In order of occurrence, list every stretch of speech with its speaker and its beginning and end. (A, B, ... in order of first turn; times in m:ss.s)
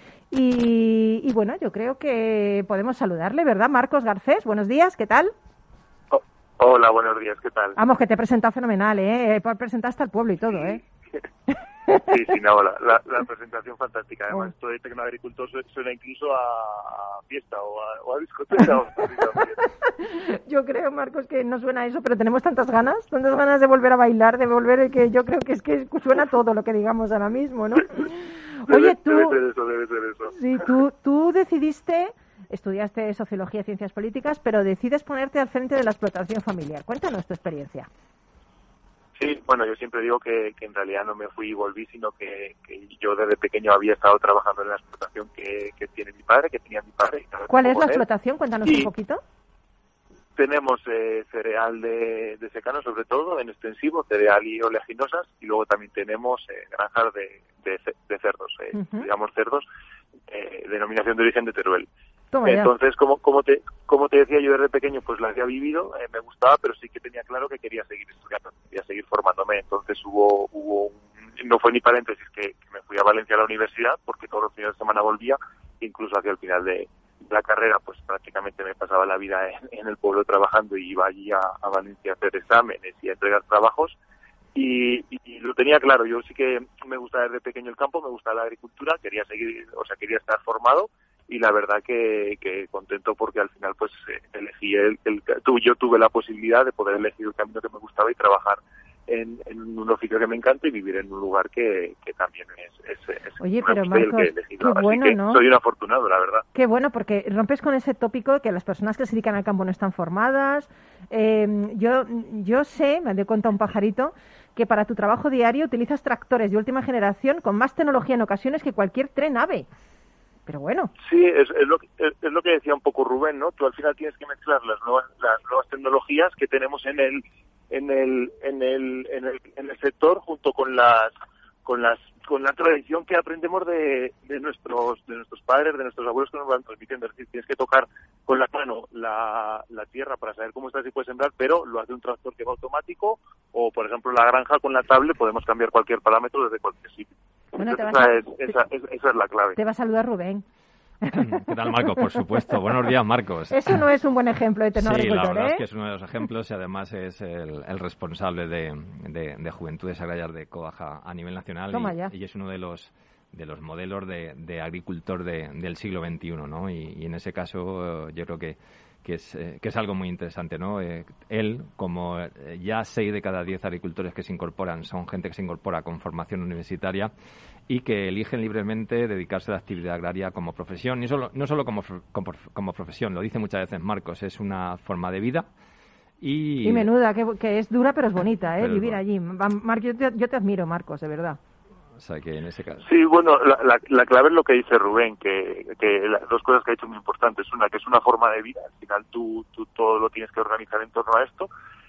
0:00.3-0:05.3 A
0:06.1-0:07.8 B
0:07.8-0:10.8 A
0:10.5-0:10.8 B
0:11.9-0:19.6 B
0:19.8-0:29.4 A
0:28.6-0:30.3 B
0:30.3-0:37.9 A
0:39.2-0:48.0 B
0:47.5-0:49.2 A
0:48.6-0:48.9 B
0:50.4-0:59.6 B
0:58.7-0:59.1 A
1:00.3-1:01.9 B
1:02.3-1:02.7 A
1:02.4-1:24.0 B
1:24.5-1:46.4 B
1:43.4-1:45.4 A
1:46.5-1:59.7 A
2:00.4-2:00.9 A
2:01.0-2:11.1 B
2:11.6-2:29.6 B
2:27.6-2:28.5 A
2:29.6-2:30.4 A
2:31.0-2:31.4 A
2:31.1-2:33.8 C
2:33.5-2:35.6 A
2:34.7-2:57.1 C
2:41.7-2:42.1 A
2:57.7-3:05.5 C
3:06.2-3:06.9 C
3:06.6-3:11.4 A
3:08.6-3:09.0 C
3:12.0-3:12.8 C
3:12.8-3:21.5 B